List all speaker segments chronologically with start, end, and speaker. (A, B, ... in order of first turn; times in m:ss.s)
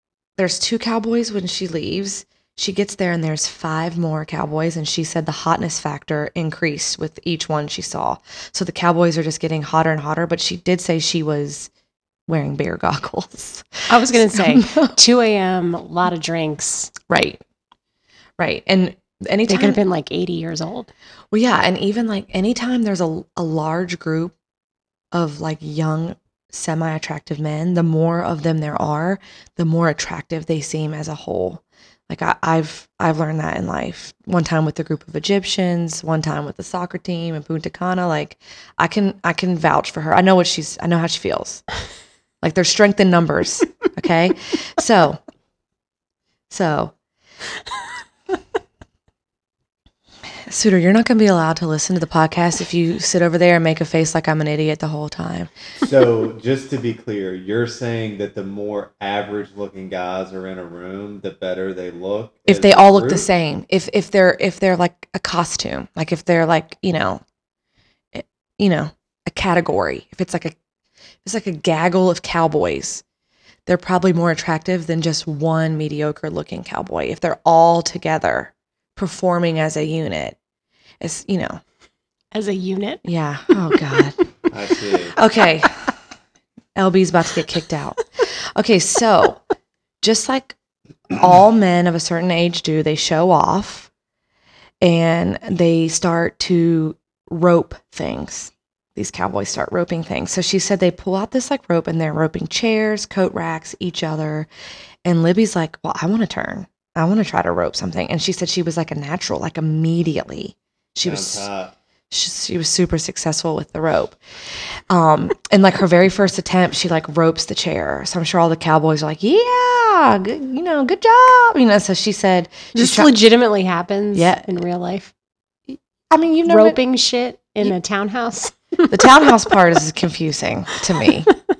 0:00.4-0:11.7 A
0:12.3-0:14.9 A
0:13.9-0:16.9 B
0:17.1-0:17.4 A
0:18.4-0:19.8 A
0:19.5-0:20.9 B
0:21.3-0:24.3 A
0:25.1-0:41.6 A
0:42.4-0:45.2 A
0:46.5-0:46.9 A
0:50.5-0:55.5 A
0:55.8-1:03.2 C
1:02.5-1:07.2 A
1:08.1-1:10.6 A
1:11.2-1:13.0 A
1:13.6-1:20.4 A
1:21.0-1:21.6 A
1:22.3-1:23.0 B
1:23.0-1:24.2 A
1:24.5-1:25.2 C
1:25.1-1:26.0 A
1:26.8-1:29.4 A
1:30.0-1:30.6 A
1:31.1-1:33.9 A
1:34.8-1:44.5 A
1:45.0-1:51.4 A
1:51.0-1:51.7 C
1:52.1-2:03.1 A
2:02.7-2:05.1 B
2:04.1-2:04.5 A
2:05.7-2:06.8 A
2:06.4-2:08.9 B
2:08.9-2:11.3 A